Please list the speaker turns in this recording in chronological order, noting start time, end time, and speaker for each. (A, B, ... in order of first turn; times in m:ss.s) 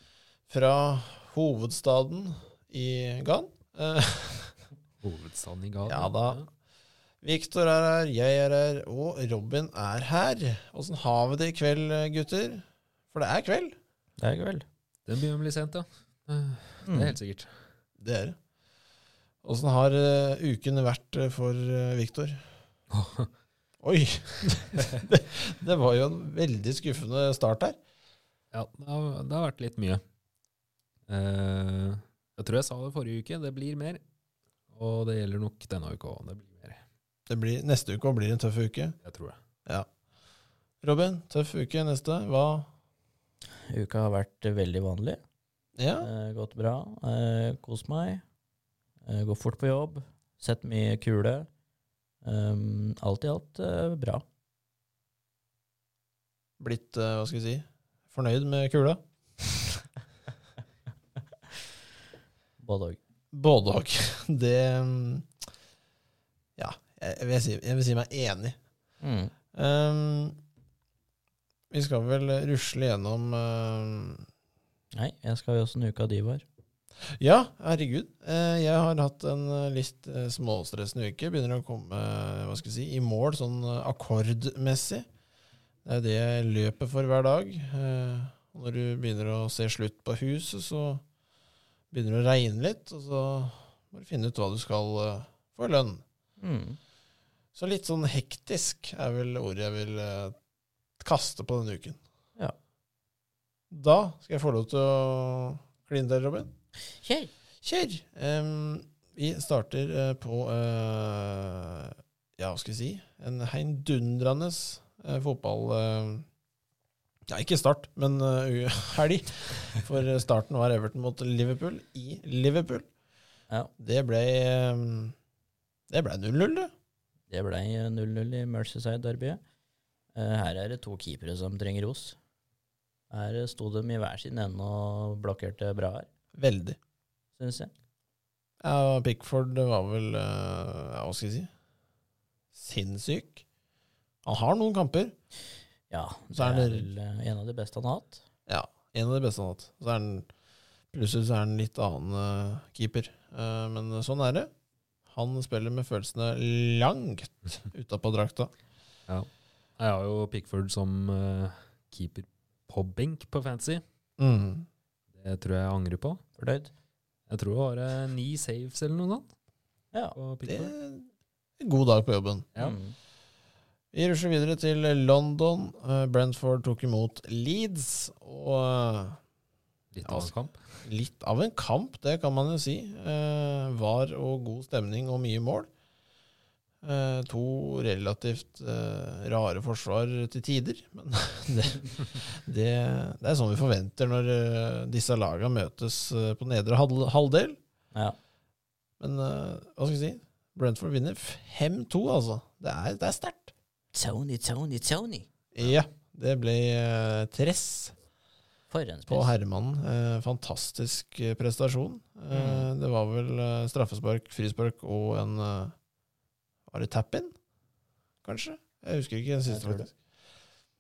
0:00.5-0:04.6 A
0:05.0-0:06.5 B
0:05.9-0:06.4 A
0:07.2-0:13.8 A
0:14.2-0:14.6 C
0:15.1-0:17.5 B
0:16.8-0:17.2 C
0:18.0-0:18.4 A
0:19.4-0:22.4 A
0:22.9-0:23.3 B
0:23.8-0:27.8 A
0:28.5-0:30.0 B
0:31.1-0:34.0 B
0:34.7-0:36.8 B
0:37.3-0:39.0 A
0:39.0-0:39.4 B
0:40.8-0:42.7 A
0:43.7-0:45.2 C
0:45.8-0:46.1 A
0:46.0-0:48.2 C
0:49.0-0:51.5 C
0:52.2-0:54.2 C
0:56.6-0:59.8 A
1:02.6-1:03.0 C
1:03.3-1:05.3 A
1:06.6-1:08.6 A
1:09.0-1:09.3 C
1:09.5-1:10.4 A
1:11.7-1:14.3 A
1:14.9-1:16.4 C
1:17.2-1:25.0 A
1:25.8-1:31.0 A
1:31.9-1:36.0 A
1:36.4-1:36.8 C
1:37.6-1:40.4 A
1:41.0-1:42.0 A
1:43.7-1:46.5 A
1:47.0-1:47.3 C
1:47.6-1:56.3 A
1:57.3-2:02.9 A
2:03.8-2:05.2 A
2:05.9-2:06.7 A
2:07.3-2:09.4 C
2:10.1-2:12.2 C
2:13.1-2:16.1 C
2:16.3-2:16.8 A
2:17.4-2:17.7 C
2:18.6-2:21.5 A
2:22.5-2:23.4 A
2:24.2-2:25.1 A
2:25.9-2:28.2 C
2:26.3-2:26.9 A
2:28.5-2:30.3 A
2:30.9-2:34.5 A
2:35.1-2:38.5 A
2:39.8-2:43.8 B
2:44.2-2:44.7 A
2:45.1-2:46.2 B
2:46.4-2:46.7 C
2:47.3-2:49.3 B
2:50.2-2:50.7 B
2:50.5-2:51.1 A
2:51.6-2:52.5 A
2:52.6-2:53.0 C
2:53.9-2:59.2 A
2:59.9-3:00.7 B
3:00.0-3:00.3 A
3:00.8-3:05.7 A
3:06.8-3:17.6 A
3:19.0-3:23.5 A
3:23.9-3:25.3 C
3:25.5-3:28.0 A
3:28.7-3:29.3 C
3:29.1-3:35.7 A
3:32.3-3:32.7 C
3:36.7-3:37.3 A
3:38.2-3:39.9 A
3:39.5-3:39.9 C